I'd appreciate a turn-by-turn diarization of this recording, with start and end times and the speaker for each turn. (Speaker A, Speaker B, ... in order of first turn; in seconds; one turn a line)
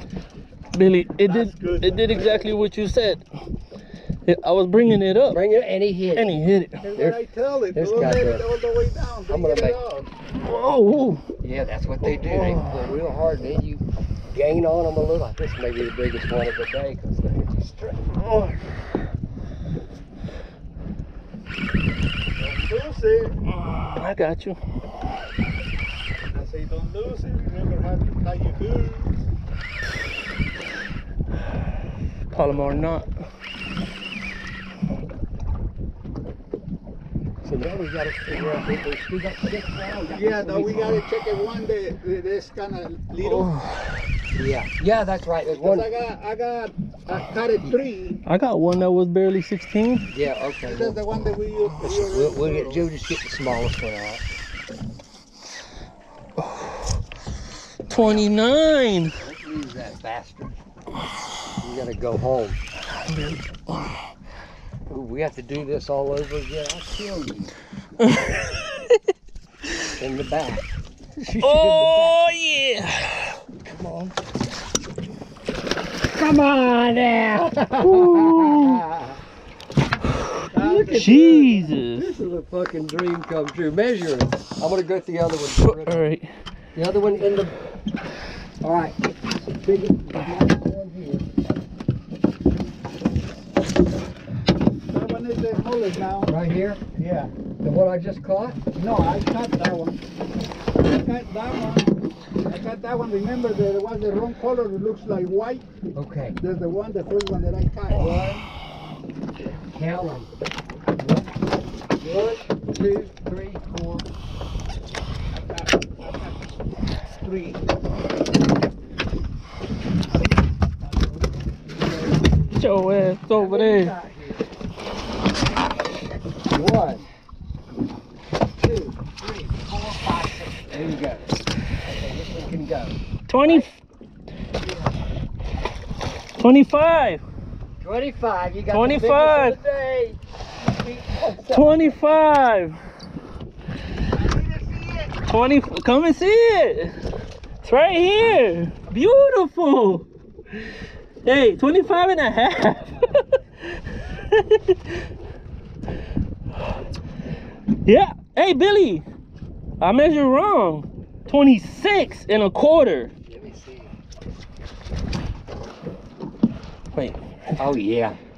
Speaker A: 0.7-3.2
Speaker B: 1.3-2.6
Speaker A: 4.3-5.4
Speaker C: 5.3-6.4
Speaker A: 6.2-6.8
Speaker B: 6.8-10.1
Speaker C: 7.0-7.2
Speaker C: 7.7-8.5
Speaker C: 9.3-9.8
Speaker A: 10.4-11.2
Speaker C: 11.4-18.3
Speaker A: 12.0-12.9
Speaker B: 22.4-23.4
Speaker A: 23.4-24.6
Speaker B: 26.3-29.2
Speaker A: 32.3-33.1
Speaker C: 37.4-41.0
Speaker B: 40.1-43.5
Speaker A: 43.2-44.1
Speaker C: 44.3-45.9
Speaker B: 45.5-48.2
Speaker A: 48.2-50.0
Speaker C: 50.1-51.0
Speaker B: 50.6-52.9
Speaker C: 51.8-54.2
Speaker A: 57.9-59.1
Speaker C: 57.9-58.4
Speaker C: 59.2-60.6
Speaker C: 61.6-62.6
Speaker A: 62.9-63.9
Speaker C: 64.9-67.5
Speaker A: 68.0-68.8
Speaker C: 70.0-70.7
Speaker C: 71.3-72.2
Speaker A: 71.3-73.4
Speaker C: 73.6-74.1
Speaker C: 76.0-79.1
Speaker A: 77.8-78.8
Speaker B: 80.5-81.7
Speaker A: 80.6-82.1
Speaker C: 81.9-86.0
Speaker A: 85.7-86.3
Speaker C: 86.8-87.6
Speaker C: 88.6-91.3
Speaker B: 94.9-96.4
Speaker C: 96.3-96.8
Speaker B: 96.9-97.3
Speaker C: 97.6-98.7
Speaker B: 98.7-100.0
Speaker B: 100.8-105.7
Speaker C: 106.0-106.4
Speaker B: 106.4-108.5
Speaker C: 107.9-108.3
Speaker C: 109.7-110.3
Speaker C: 112.0-114.0
Speaker B: 115.3-116.4
Speaker B: 117.0-117.6
Speaker C: 121.8-122.1
Speaker A: 122.5-124.0
Speaker C: 123.3-124.4
Speaker C: 126.5-127.1
Speaker C: 128.6-133.7
Speaker A: 133.3-133.8
Speaker A: 136.4-137.2
Speaker C: 137.8-142.0
Speaker A: 138.7-139.6
Speaker A: 141.5-142.8
Speaker B: 144.2-145.1
Speaker A: 145.2-146.9
Speaker A: 147.6-150.1
Speaker A: 151.2-153.2
Speaker A: 154.0-155.0
Speaker A: 157.9-159.1
Speaker A: 159.8-163.1
Speaker C: 163.3-163.9
Speaker C: 167.6-168.2